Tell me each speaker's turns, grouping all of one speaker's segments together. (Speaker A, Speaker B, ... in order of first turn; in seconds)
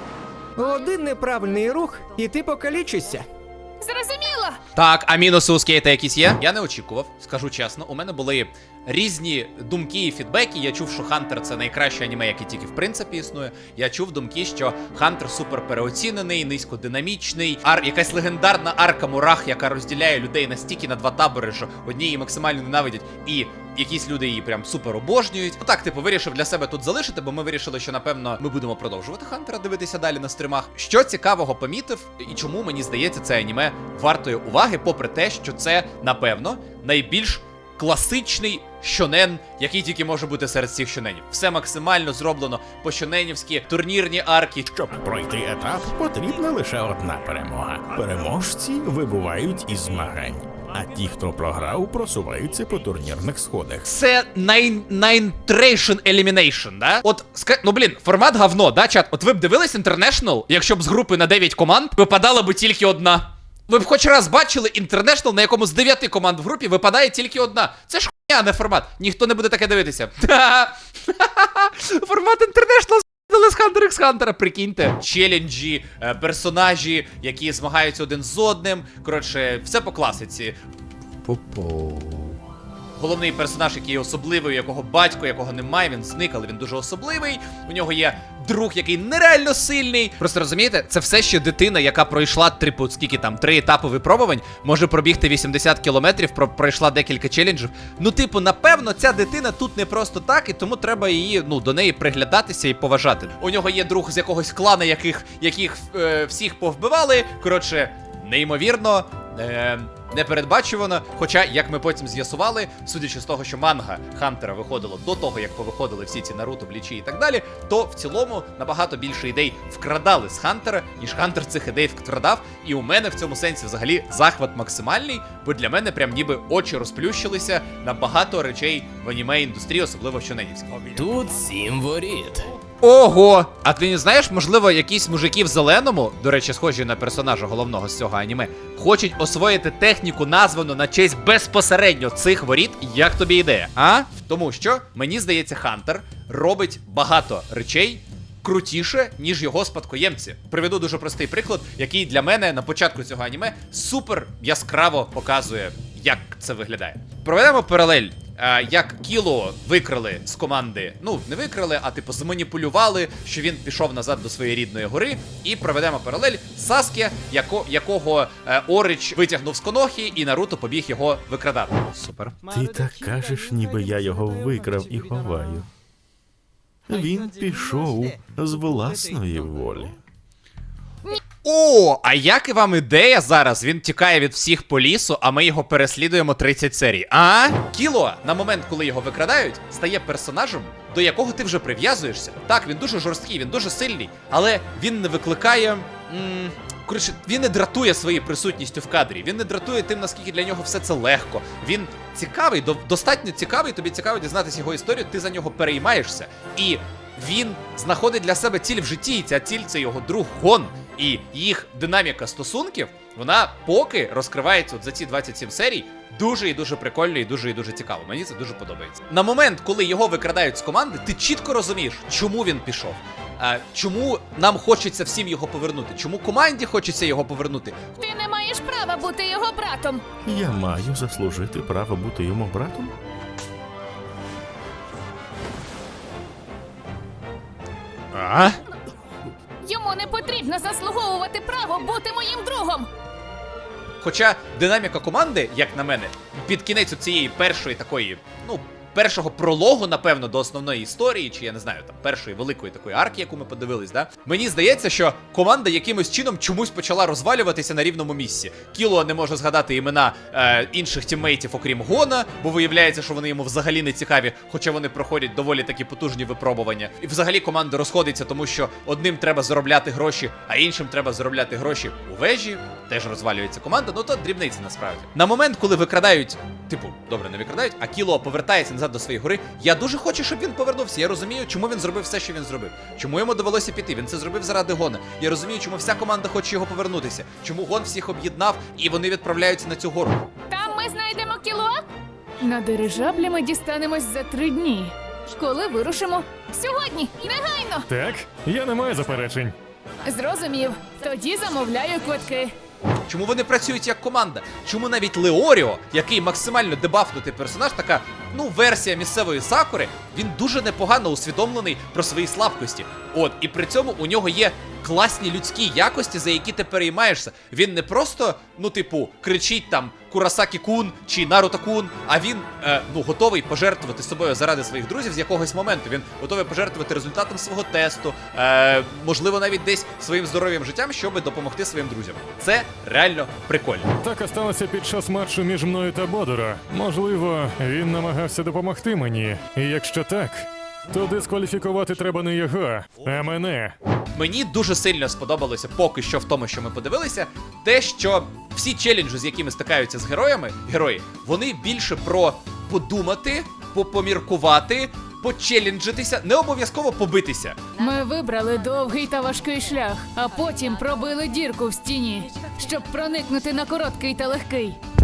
Speaker A: 0.6-3.3
Speaker B: 3.8-4.6, 228.0-230.0, 239.6-242.9, 290.5-291.8, 292.4-297.9, 300.1-302.5, 357.8-364.8
Speaker C: 4.8-44.7, 53.8-80.6, 83.0-130.9, 132.8-172.4, 181.4-227.8, 238.1-238.6, 244.0-290.2, 303.1-333.9, 344.1-357.6
Speaker D: 44.7-53.9, 81.3-82.2, 131.0-132.4, 172.4-175.7, 176.9-180.0, 230.2-232.9
Speaker E: 297.9-299.6, 334.0-343.8